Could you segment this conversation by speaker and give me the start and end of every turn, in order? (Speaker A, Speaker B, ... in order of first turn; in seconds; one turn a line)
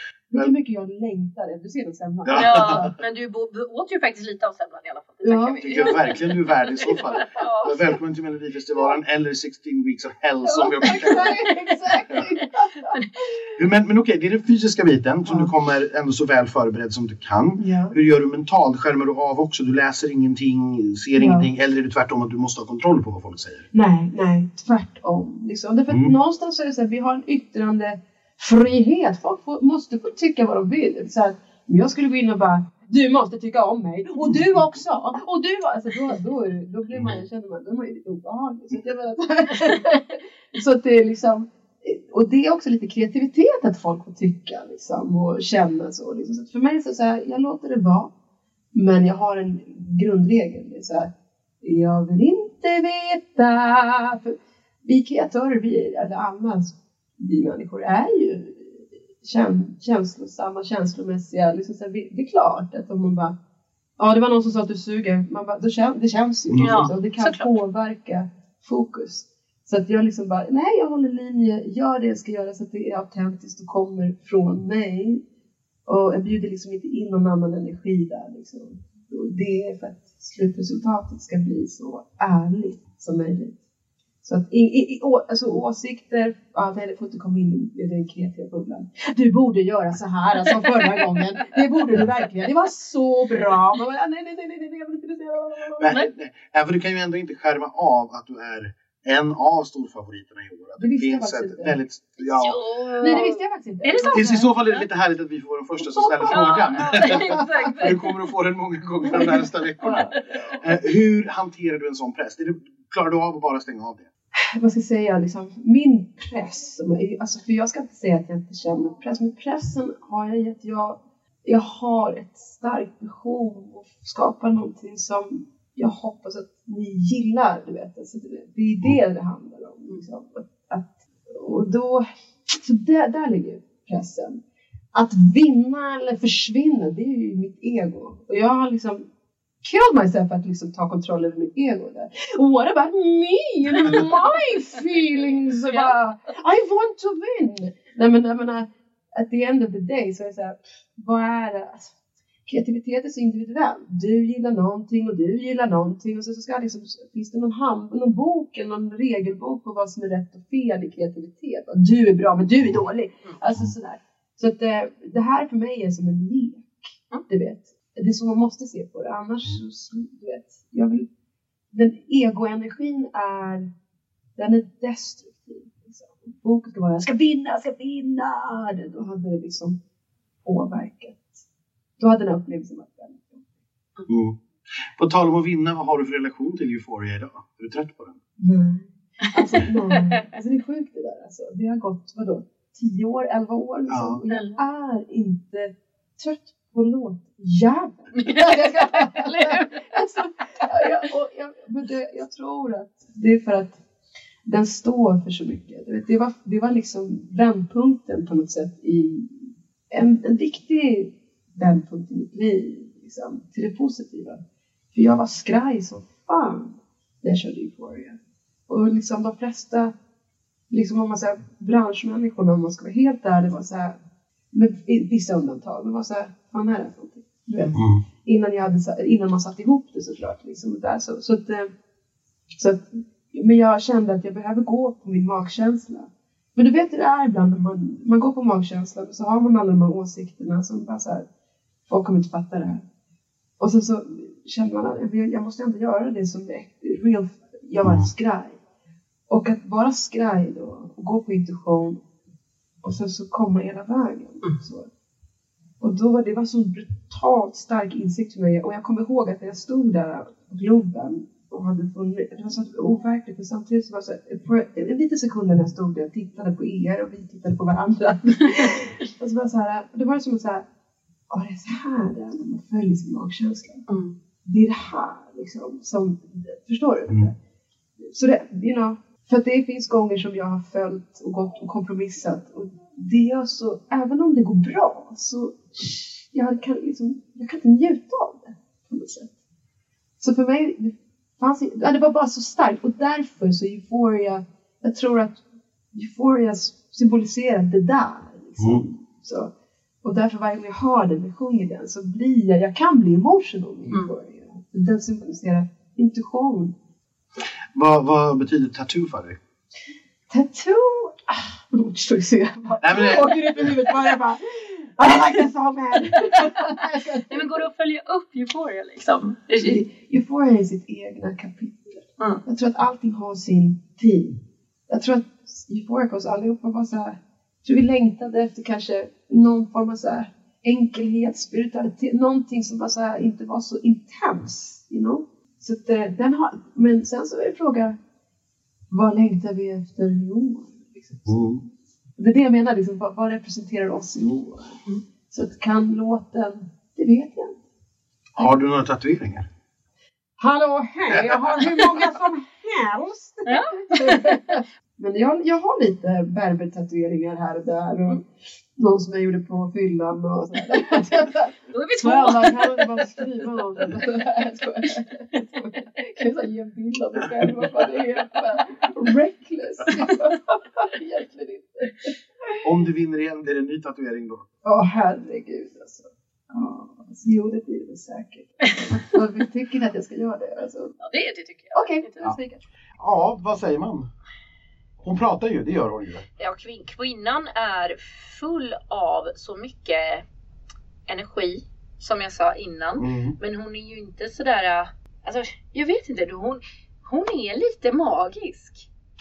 Speaker A: 0.3-2.9
Speaker B: 2.2-2.9
Speaker C: 2.4-7.9
Speaker A: 5.2-6.2
Speaker B: 5.6-11.3
Speaker A: 10.4-13.4
Speaker B: 13.6-23.7
Speaker A: 17.6-17.9
Speaker A: 21.1-21.5
Speaker A: 23.7-48.1
Speaker B: 36.9-37.2
Speaker A: 48.7-51.1
Speaker A: 51.6-63.4
Speaker A: 64.0-75.2
Speaker B: 66.5-66.9
Speaker C: 66.6-67.5
Speaker A: 75.8-83.6
Speaker A: 84.2-96.0
Speaker B: 95.8-103.0
Speaker A: 100.8-101.7
Speaker C: 102.2-104.8
Speaker A: 103.0-104.5
Speaker B: 104.1-114.1
Speaker A: 106.0-107.9
Speaker C: 106.2-108.1
Speaker C: 109.1-110.1
Speaker A: 114.4-134.4
Speaker A: 134.9-139.1
Speaker A: 139.6-151.9
Speaker C: 145.7-145.9
Speaker A: 152.4-171.1
Speaker A: 171.7-173.7
Speaker A: 174.4-179.8
Speaker A: 180.4-181.4
Speaker A: 182.0-183.4
Speaker B: 184.1-184.4
Speaker B: 184.9-188.2
Speaker A: 188.4-203.8
Speaker C: 189.3-190.0
Speaker B: 193.9-194.2
Speaker C: 194.3-194.6
Speaker C: 198.2-199.8
Speaker A: 204.4-214.4
Speaker A: 214.9-219.9
Speaker A: 220.7-224.0
Speaker A: 224.5-231.7
Speaker B: 227.7-228.0
Speaker A: 232.6-241.3
Speaker A: 241.9-242.8
Speaker A: 243.6-248.6
Speaker B: 247.8-248.1
Speaker A: 249.3-252.0
Speaker A: 252.8-254.9
Speaker A: 255.8-270.6
Speaker A: 271.3-273.8
Speaker C: 273.9-274.1
Speaker A: 274.4-277.3
Speaker A: 278.0-289.3
Speaker A: 290.2-295.4
Speaker A: 295.9-299.5
Speaker B: 298.6-298.8
Speaker A: 300.0-306.7
Speaker B: 307.7-309.4
Speaker A: 310.3-317.6
Speaker B: 312.8-313.7
Speaker C: 317.3-319.8
Speaker A: 319.6-338.0
Speaker A: 338.9-341.6
Speaker B: 341.3-341.6
Speaker A: 342.2-347.6
Speaker B: 348.4-349.5
Speaker A: 350.4-372.6
Speaker B: 351.1-351.5
Speaker C: 353.4-354.4
Speaker C: 361.7-363.3
Speaker B: 372.6-374.4
Speaker A: 374.6-380.9
Speaker C: 381.0-382.1
Speaker A: 381.7-382.6
Speaker B: 383.0-384.1
Speaker B: 385.0-386.2
Speaker C: 386.4-390.2
Speaker C: 391.1-398.9
Speaker B: 393.0-393.4